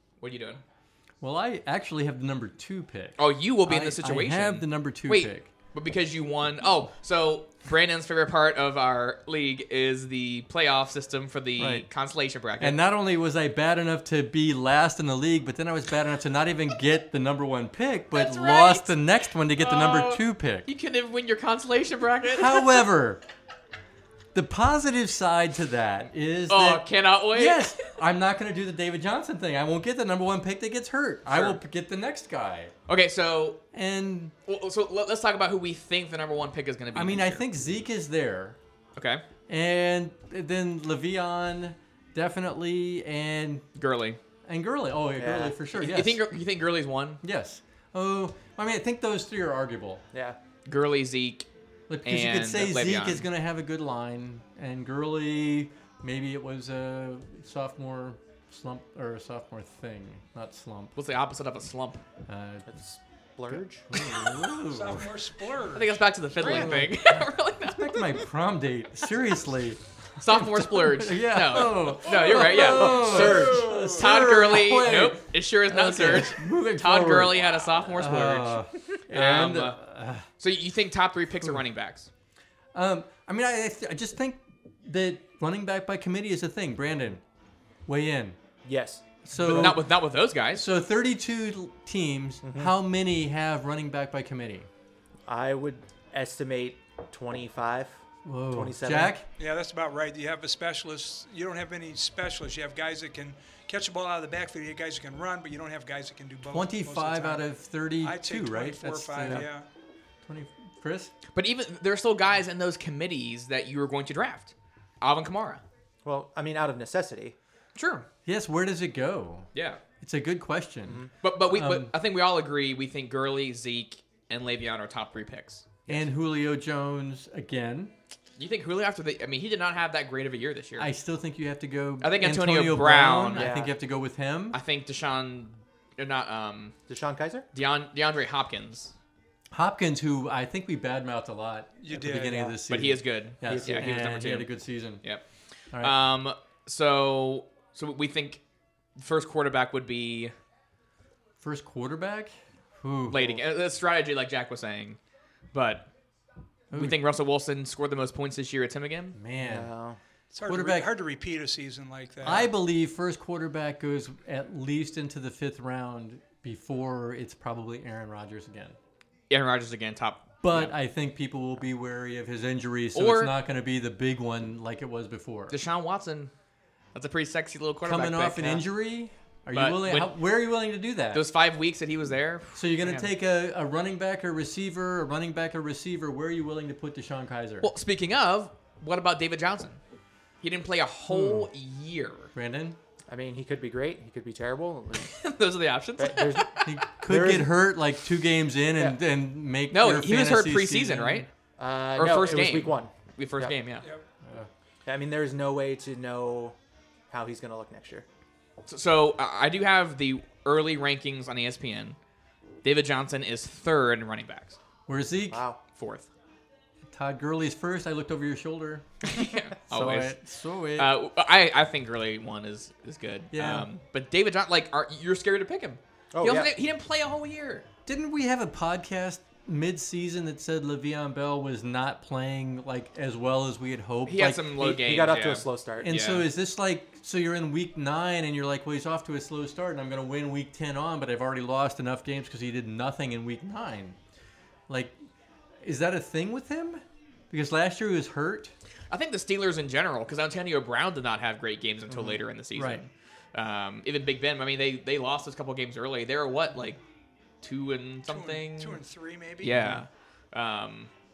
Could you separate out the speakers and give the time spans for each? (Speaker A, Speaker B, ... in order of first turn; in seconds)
Speaker A: 0.2-0.6, 3.2-12.8, 18.1-18.9, 19.6-22.8, 26.5-27.8, 31.2-31.6, 32.9-33.6, 34.5-37.4, 39.0-39.2, 43.8-44.2, 45.7-47.2, 50.6-51.5, 52.0-53.2, 61.0-62.0, 65.7-68.2, 70.2-79.8, 80.4-82.1, 89.4-90.7, 111.3-115.6, 117.8-118.1, 119.5-119.8, 121.2-125.7, 128.4-130.9, 132.0-133.5, 134.5-136.7, 137.5-138.9, 142.7-144.5, 145.8-148.4, 148.9-150.3, 153.1-155.0, 155.5-155.9, 156.7-159.2, 169.3-170.7, 172.9-173.3, 175.5-176.3, 176.9-178.7, 179.5-180.1, 181.1-183.1, 187.6-189.8, 190.4-192.3, 195.0-196.7, 199.7-201.3, 201.9-203.9, 208.7-212.0, 212.6-214.6, 215.8-216.1, 219.0-220.2, 220.8-227.7, 234.1-236.3, 248.9-256.8, 257.4-258.8, 259.4-260.9
Speaker B: 1.2-5.5, 11.6-11.8, 12.6-20.7, 22.3-23.2, 24.3-32.7, 33.7-34.3, 36.9-38.6, 39.5-43.6, 44.5-46.2, 47.2-50.0, 51.9-60.9, 62.3-62.7, 63.5-65.2, 66.4-80.3, 82.7-87.2, 87.8-88.4, 89.2-89.9, 90.5-94.7, 98.2-99.3, 106.5-109.5, 110.2-111.1, 118.2-119.5, 120.0-121.9, 125.9-127.9, 130.8-134.6, 139.5-145.0, 145.7-146.0, 151.4-153.4, 156.7-157.0, 159.1-159.7, 160.4-160.9, 162.2-168.8, 170.4-175.6, 177.8-181.2, 182.5-187.7, 191.1-191.5, 192.3-192.8, 196.6-201.3, 204.2-204.5, 214.9-215.4, 216.9-218.9, 219.7-220.9, 223.3-223.7, 227.8-234.6, 235.8-244.0, 244.7-244.9, 245.6-248.5, 252.6-252.8, 259.4-259.8
Speaker C: 45.2-45.5, 62.7-63.9, 72.9-73.4, 88.6-89.6, 92.4-92.7, 95.3-99.2, 116.0-117.3, 120.9-121.1, 133.3-133.7, 136.9-137.5, 143.4-143.9, 159.4-160.0, 193.1-195.1, 196.0-197.5, 201.6-203.5, 204.8-206.6, 207.1-208.0, 215.3-215.6, 226.1-226.5, 234.6-235.9
Speaker D: 64.7-66.7, 72.8-74.1, 99.4-107.4, 108.0-109.6, 141.8-142.5, 160.3-162.5, 258.1-259.5